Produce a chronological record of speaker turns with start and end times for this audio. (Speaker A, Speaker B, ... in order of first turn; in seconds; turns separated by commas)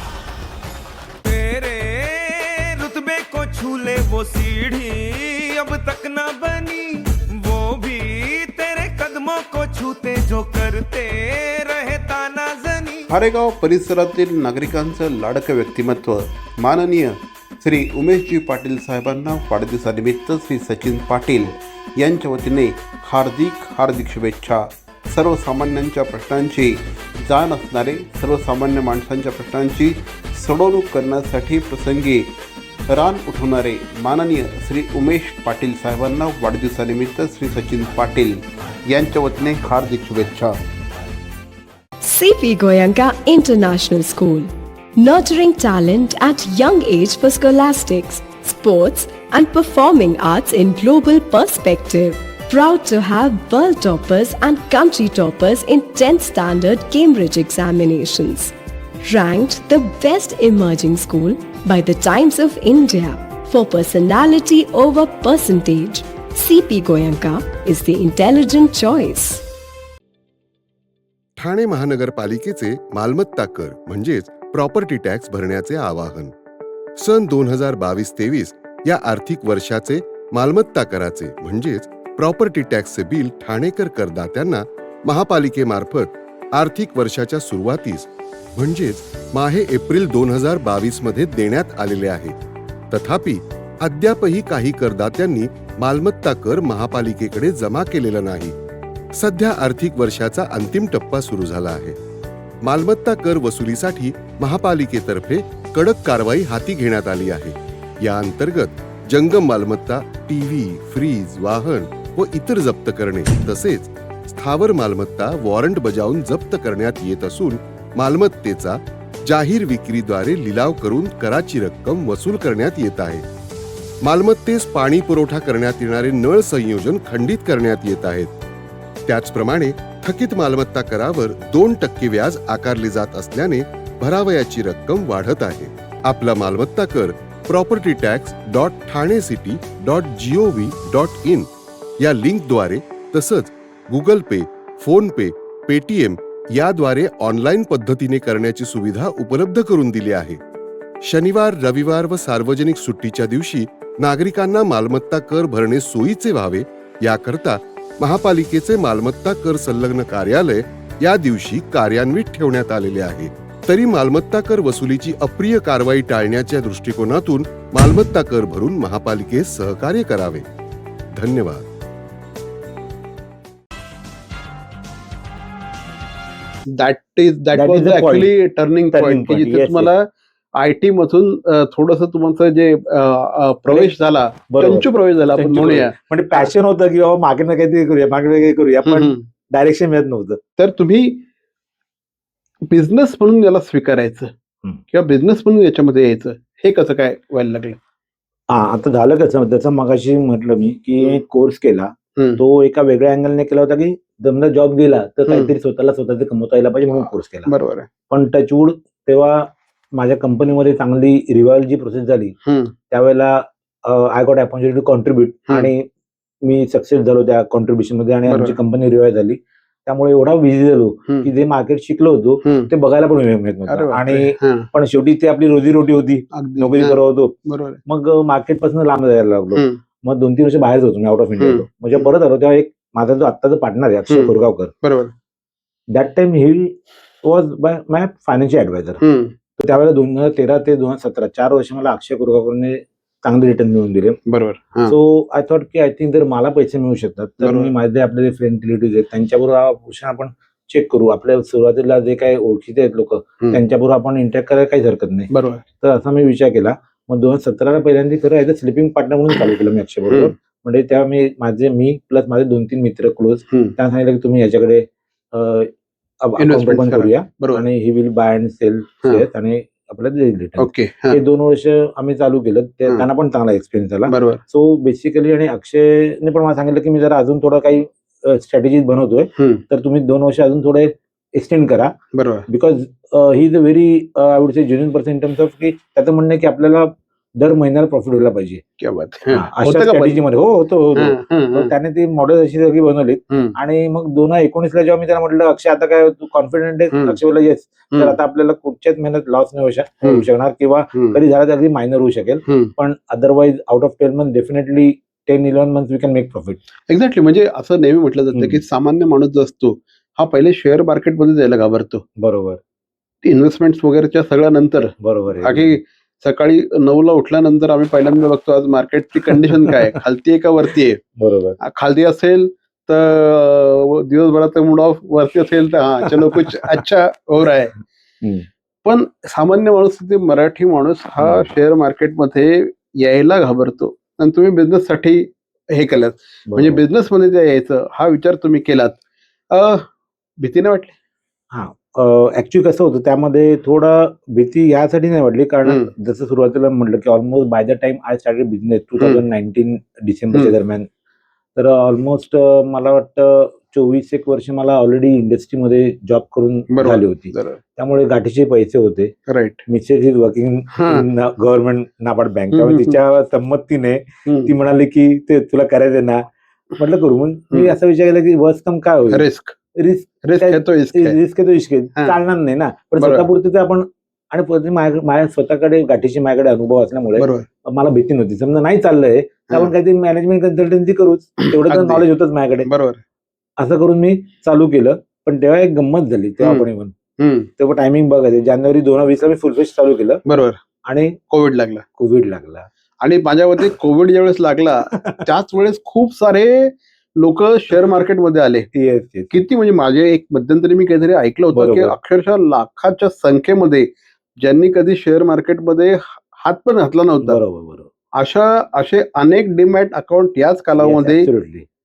Speaker A: 1.2-13.1, Speaker B: 13.1-32.3, Speaker B: 32.9-40.6, Speaker C: 42.0-69.4, Speaker D: 71.4-76.3, Speaker D: 77.0-92.3, Speaker D: 92.9-98.5, Speaker D: 99.1-102.0, Speaker D: 102.6-123.2, Speaker D: 124.0-128.3, Speaker D: 129.1-150.4, Speaker D: 151.0-170.4, Speaker D: 171.1-171.7, Speaker B: 176.7-186.5, Speaker E: 177.5-178.3, Speaker E: 178.9-179.9, Speaker E: 184.5-190.4, Speaker B: 188.8-189.2, Speaker B: 190.6-191.2, Speaker B: 192.7-194.3, Speaker B: 194.9-197.8, Speaker E: 198.5-207.5, Speaker B: 205.3-205.5, Speaker B: 207.4-207.9, Speaker E: 208.1-212.3, Speaker B: 212.4-212.7, Speaker E: 212.9-215.9, Speaker E: 216.4-227.3, Speaker B: 218.3-218.6, Speaker B: 222.4-222.7, Speaker B: 223.7-224.7, Speaker B: 226.3-227.8, Speaker E: 227.8-234.7, Speaker B: 231.4-232.1, Speaker B: 234.1-235.1, Speaker E: 235.9-239.0, Speaker B: 239.0-239.3, Speaker E: 239.6-244.2, Speaker B: 244.3-244.9, Speaker E: 244.8-255.3, Speaker B: 247.4-247.7, Speaker B: 255.3-255.6, Speaker E: 255.8-281.9, Speaker B: 260.1-260.3, Speaker B: 266.4-267.6, Speaker B: 270.6-271.2, Speaker B: 274.1-274.4, Speaker B: 279.4-279.6, Speaker B: 282.1-282.4, Speaker E: 282.5-288.6, Speaker B: 288.8-290.2, Speaker E: 289.3-306.6, Speaker B: 290.9-291.7, Speaker B: 302.5-302.7, Speaker B: 306.9-312.0, Speaker E: 308.3-308.6, Speaker E: 312.2-312.6, Speaker B: 313.2-321.0, Speaker E: 315.0-315.8, Speaker E: 321.2-321.6, Speaker B: 321.6-327.8, Speaker E: 328.2-328.5, Speaker B: 328.8-339.0, Speaker E: 331.2-331.5, Speaker E: 336.5-336.8, Speaker B: 339.5-339.9, Speaker B: 340.4-340.9, Speaker E: 341.5-350.9, Speaker E: 351.6-359.1, Speaker B: 356.7-357.6, Speaker B: 359.3-359.6, Speaker E: 359.7-366.2, Speaker B: 360.7-361.1, Speaker B: 362.5-363.0, Speaker B: 364.2-364.5, Speaker E: 366.8-382.7, Speaker B: 369.1-369.5, Speaker B: 370.2-371.2, Speaker B: 373.0-373.2, Speaker B: 377.2-377.5, Speaker B: 381.4-382.0, Speaker B: 382.6-383.0, Speaker E: 383.6-386.9, Speaker B: 386.4-386.6, Speaker B: 387.2-387.5, Speaker E: 387.6-390.2, Speaker B: 390.2-390.6, Speaker E: 390.8-391.2, Speaker B: 391.3-391.8, Speaker E: 392.0-392.7, Speaker B: 393.0-398.7, Speaker E: 394.9-395.2, Speaker E: 398.7-399.3, Speaker B: 399.3-403.9, Speaker E: 401.5-401.9, Speaker B: 404.4-407.4, Speaker E: 407.2-407.9, Speaker B: 408.1-411.3, Speaker E: 410.8-411.6